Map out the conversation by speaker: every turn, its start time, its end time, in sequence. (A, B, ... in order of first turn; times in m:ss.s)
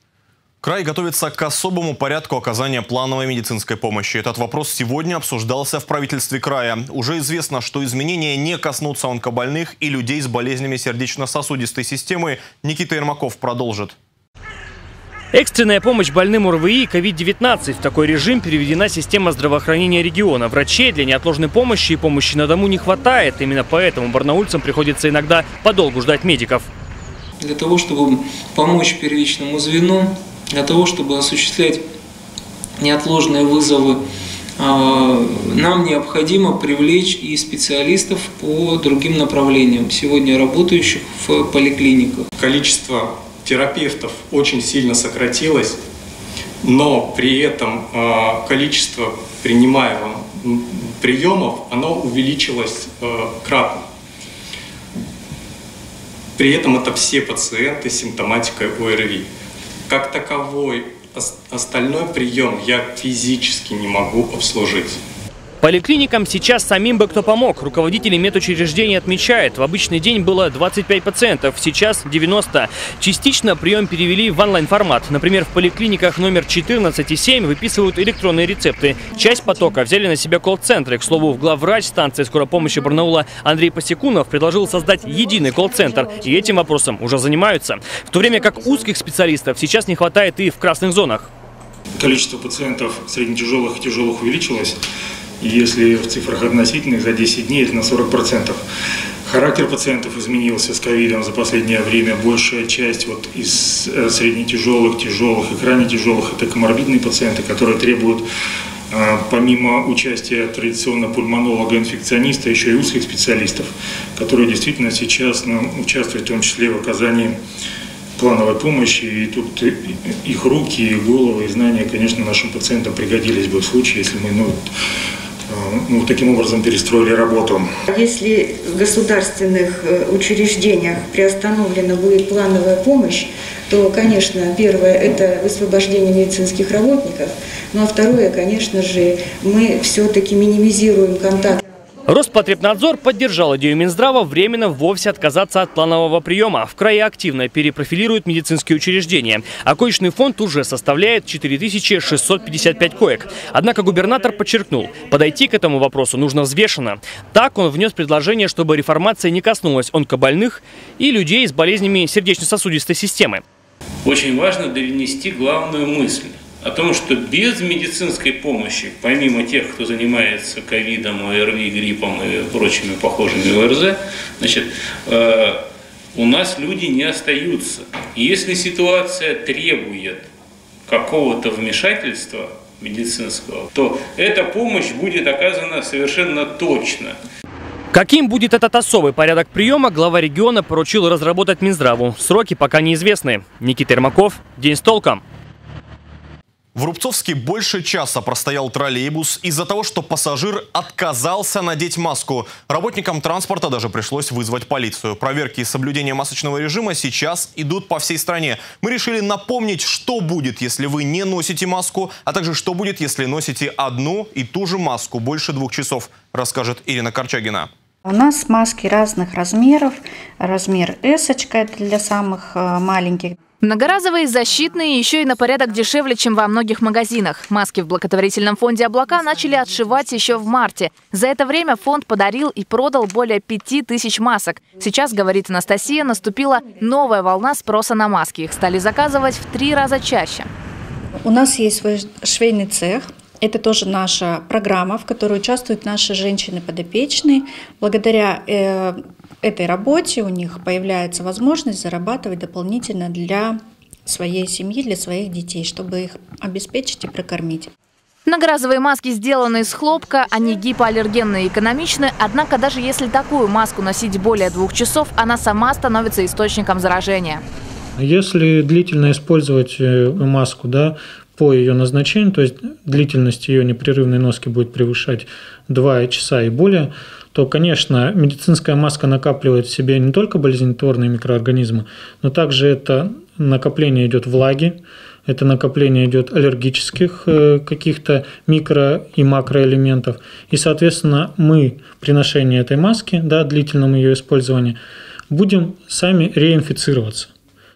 0:00.6-0:14.0 A
0:15.3-0:26.7 B
0:27.4-0:31.8 C
0:32.8-0:34.0 C
0:34.6-0:42.2 C
0:42.4-0:45.8 D
0:46.6-0:53.8 D
0:56.4-0:59.3 D
0:59.9-1:05.0 D
1:05.6-1:31.3 B
1:32.0-1:34.8 E
1:35.4-1:38.6 E
1:39.2-1:48.2 E
1:48.9-1:57.3 E
1:58.2-2:04.6 E
2:05.5-2:07.6 E
2:07.9-2:21.6 F
2:22.1-2:43.4 B
2:44.0-2:55.6 G
2:56.1-3:00.2 G
3:00.9-3:07.2 G
3:07.9-3:15.2 B
3:16.7-3:37.7 A
3:38.0-3:43.4 H
3:43.6-4:00.5 I
4:01.2-4:17.7 H
4:18.3-4:27.4 I
4:28.0-4:54.8 J
4:55.3-4:57.3 J